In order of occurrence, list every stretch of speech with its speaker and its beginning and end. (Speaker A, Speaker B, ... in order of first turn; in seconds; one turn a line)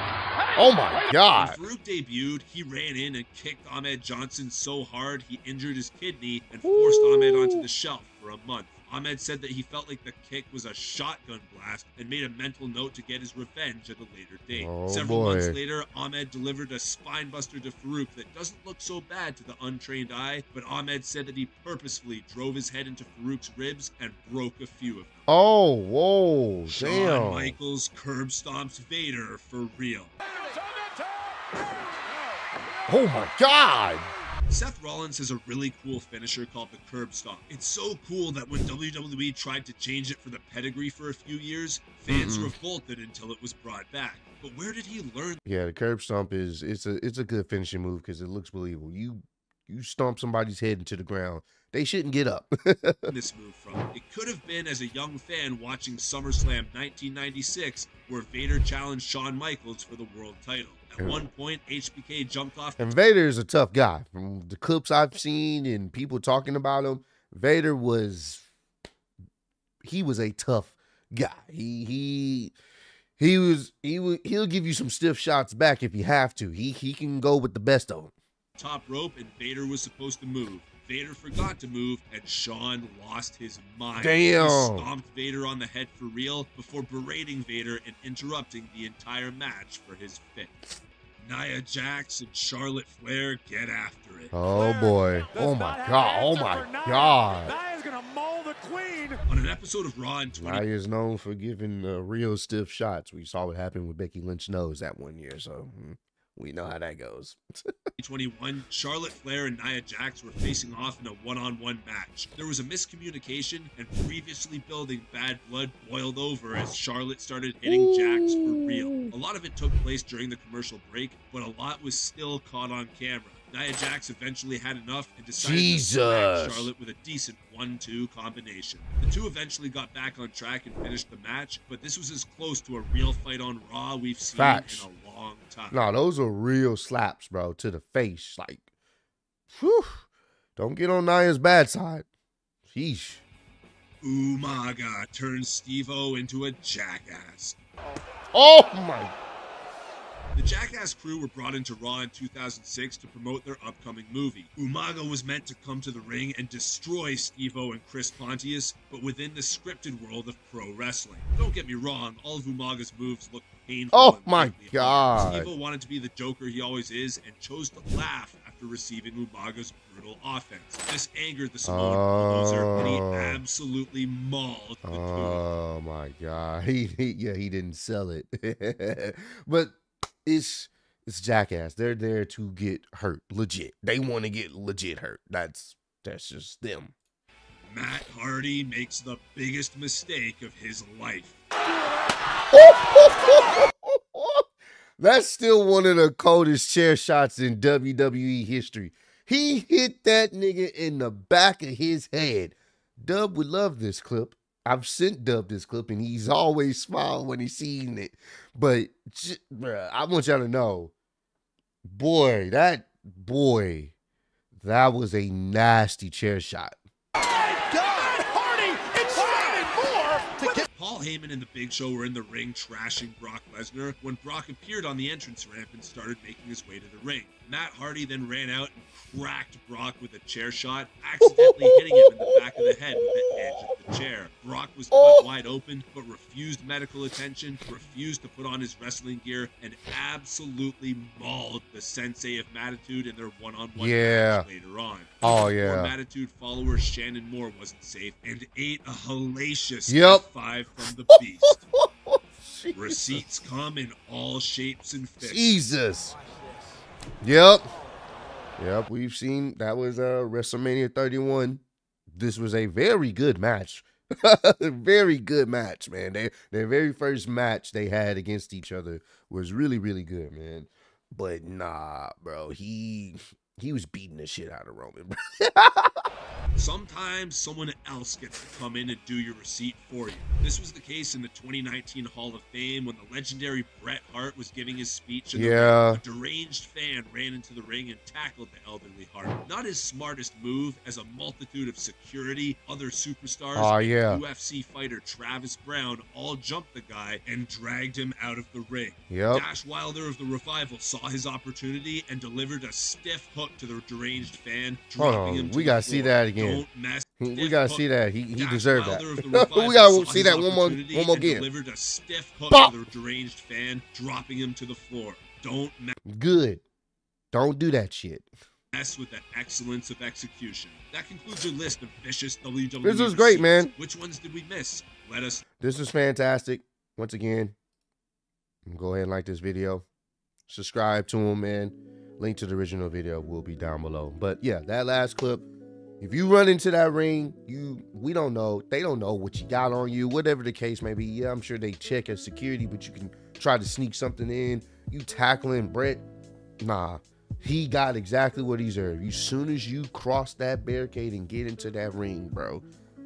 Speaker A: 0.6-1.6
Speaker B: 1.3-25.2
Speaker A: 6.6-7.6
Speaker A: 14.5-15.6
Speaker A: 25.3-27.6
Speaker B: 26.7-30.1
Speaker C: 30.7-31.0
Speaker A: 32.9-34.1
Speaker B: 34.5-45.4
Speaker A: 42.1-42.5
Speaker A: 45.5-53.1
Speaker B: 53.1-62.8
Speaker A: 61.0-61.2
Speaker A: 62.8-68.4
Speaker A: 69.8-72.5
Speaker A: 73.2-78.1
Speaker B: 78.6-90.6
Speaker A: 84.0-84.9
Speaker B: 91.2-94.3
Speaker A: 94.3-97.6
Speaker C: 95.3-99.2
Speaker B: 99.3-100.7
Speaker A: 100.3-107.4
Speaker B: 108.0-135.8
Speaker A: 117.6-119.1
Speaker A: 125.4-126.7
Speaker A: 134.3-134.9
Speaker A: 135.7-138.6
Speaker A: 139.5-140.0
Speaker A: 140.6-142.1
Speaker A: 142.7-143.2
Speaker B: 144.0-147.5
Speaker A: 148.3-149.1
Speaker B: 150.3-175.4
Speaker A: 163.9-165.5
Speaker A: 171.6-173.4
Speaker A: 174.8-186.9
Speaker B: 187.7-191.4
Speaker A: 192.5-194.5
Speaker A: 195.0-210.9
Speaker A: 211.8-213.9
Speaker A: 214.6-216.7
Speaker C: 217.4-220.7
Speaker B: 220.5-251.6
Speaker A: 231.2-233.7
Speaker A: 234.9-235.2
Speaker A: 243.8-244.4
Speaker A: 245.2-245.9
Speaker A: 249.9-250.2
Speaker A: 251.7-253.2
Speaker B: 252.7-255.6
Speaker A: 255.2-256.2
Speaker A: 257.2-257.7
Speaker A: 258.6-261.6
Speaker A: 262.1-276.0
Speaker B: 276.6-315.9
Speaker A: 285.3-286.0
Speaker A: 293.6-294.2
Speaker A: 299.1-299.4
Speaker A: 305.0-306.6
Speaker A: 307.2-311.4
Speaker A: 316.1-316.6
Speaker A: 317.3-318.3
Speaker B: 318.7-325.4
Speaker A: 322.8-323.7
Speaker A: 325.6-327.5
Speaker A: 328.7-329.8
Speaker A: 330.5-335.5
Speaker A: 336.0-346.0
Speaker A: 346.6-352.6